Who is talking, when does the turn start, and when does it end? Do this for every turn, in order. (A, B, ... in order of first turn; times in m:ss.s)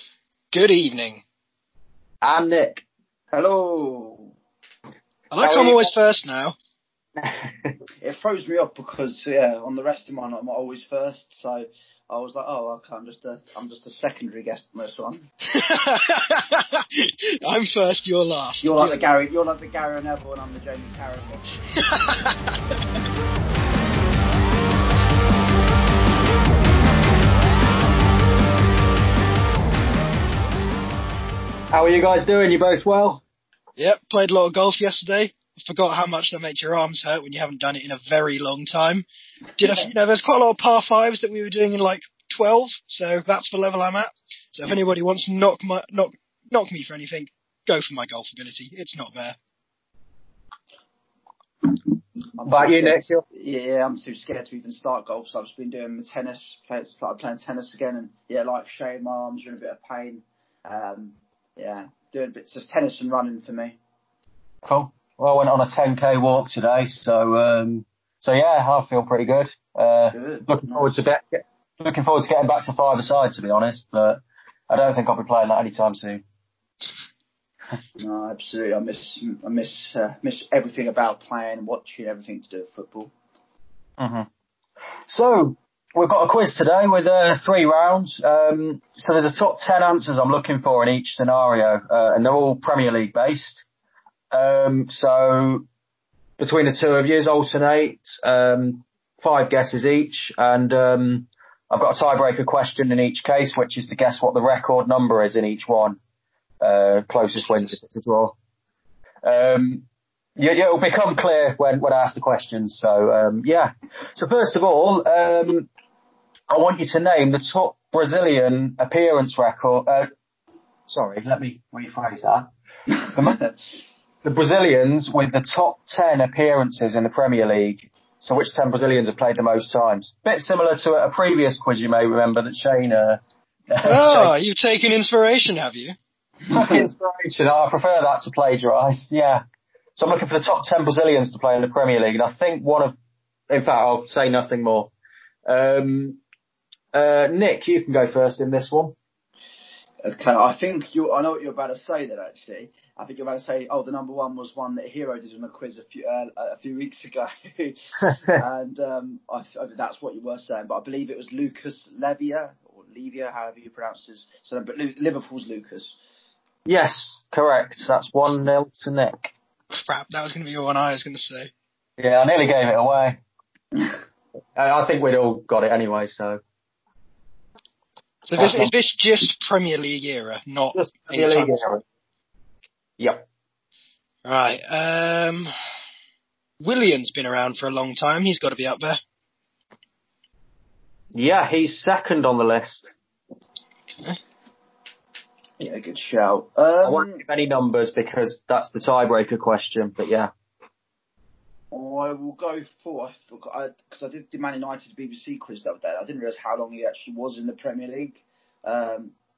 0:00.5-0:01.2 A
0:02.2-0:02.8 B
0:03.3-0:04.3 C
0:05.3-0:06.6 A
0:05.4-0:05.9 B
0:07.2-0:07.7 B
0:08.0-0:15.2 C
0:15.5-0:19.1 A
0:18.6-0:21.5 C
0:21.8-0:22.5 A
0:31.7-0:33.2 B
0:33.8-0:39.0 A
0:39.6-0:49.4 A
0:52.4-1:03.8 C
0:52.4-0:53.2 B
1:04.6-1:16.2 B
1:10.1-1:11.0 C
1:18.0-1:23.1 C
1:24.0-1:24.3 B
1:25.1-1:33.6 B
1:34.3-1:35.6 B
1:36.4-1:46.0 B
1:46.6-1:48.4 B
1:49.2-1:49.8 B
1:50.4-1:55.7 B
1:56.5-2:00.1 B
2:00.9-2:02.5 B
2:02.9-2:03.3 C
2:03.1-2:03.4 B
2:04.2-2:14.3 B
2:13.8-2:16.0 A
2:16.5-2:19.4 B
2:16.6-2:16.8 C
2:20.0-2:22.9 B
2:23.5-2:24.9 B
2:25.5-2:26.2 B
2:26.9-2:28.9 B
2:30.0-2:37.7 C
2:38.1-2:38.3 B
2:38.3-2:46.0 C
2:46.6-2:49.3 B
2:49.8-2:51.5 A
2:52.0-2:53.2 B
2:54.6-2:56.4 B
2:58.3-3:01.5 A
2:58.4-2:58.7 B
3:00.7-3:01.8 B
3:03.0-3:03.2 B
3:04.2-3:05.5 A
3:06.6-3:09.0 A
3:11.1-3:12.9 B
3:15.6-3:17.2 C
3:16.8-3:20.3 B
3:21.7-3:29.1 C